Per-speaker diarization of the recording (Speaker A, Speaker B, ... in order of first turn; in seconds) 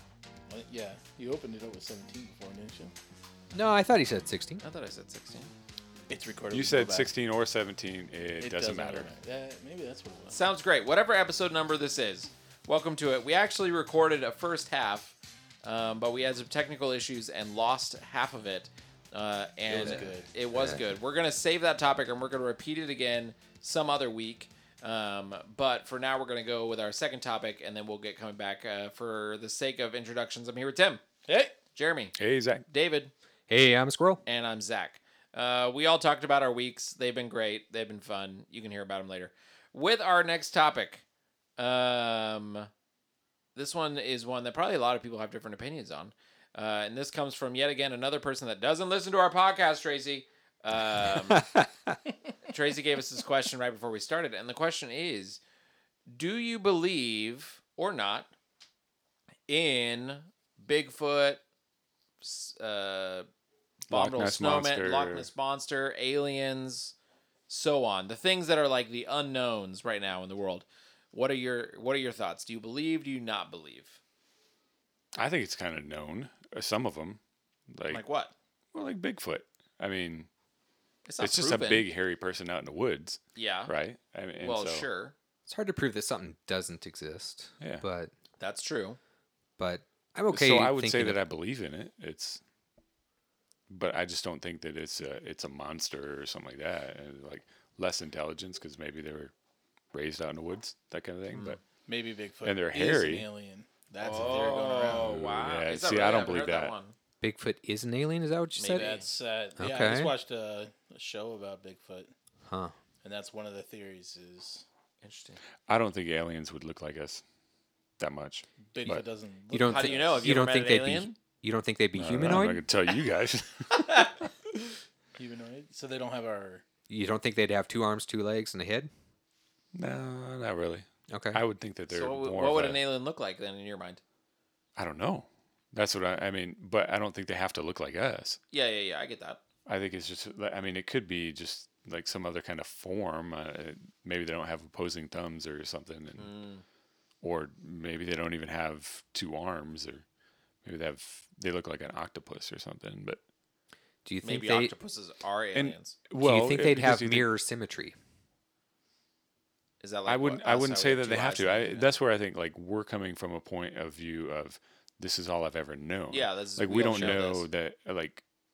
Speaker A: 0.5-2.9, 6.1-7.1, 8.4-10.4, 19.7-20.3, 31.3-31.5, 101.9-105.1, 108.7-112.1, 113.0-114.6, 118.7-120.4, 125.2-126.6
Speaker B: 3.5-4.6, 20.5-20.8, 33.5-34.2, 51.3-52.0, 85.5-88.1, 89.6-91.2, 107.2-108.9, 109.6-110.1, 112.5-112.7, 118.9-122.6, 126.9-128.9, 131.1-131.4, 154.1-154.7, 156.2-157.9
Speaker C: 4.6-5.5, 10.3-31.0, 31.8-32.2, 32.7-33.1, 34.3-41.0, 41.6-42.7, 43.5-51.5, 52.5-55.4, 56.1-58.3, 59.5-61.4, 62.2-63.3, 63.9-66.9, 67.5-74.0, 77.9-78.3, 81.0-81.9, 83.4-83.7, 84.4-85.1, 88.4-89.0, 101.3-101.6, 104.0-107.0, 108.6-109.0, 115.0-115.4, 119.6-121.2, 131.9-134.0, 138.5-139.4, 146.2-146.6, 154.2-156.0, 159.8-161.9, 166.1-167.5
Speaker D: 6.5-9.1, 32.2-32.6, 63.9-65.3, 75.2-77.2, 77.7-78.0, 78.7-80.3, 81.2-84.9, 90.3-92.4, 93.7-99.3, 99.9-101.6, 102.4-103.3, 104.9-106.7, 115.7-117.2, 118.0-119.0, 122.0-124.1, 129.7-132.8, 134.8-138.4, 139.7-146.3, 147.2-150.0, 150.6-153.2, 155.6-157.3, 160.1-168.2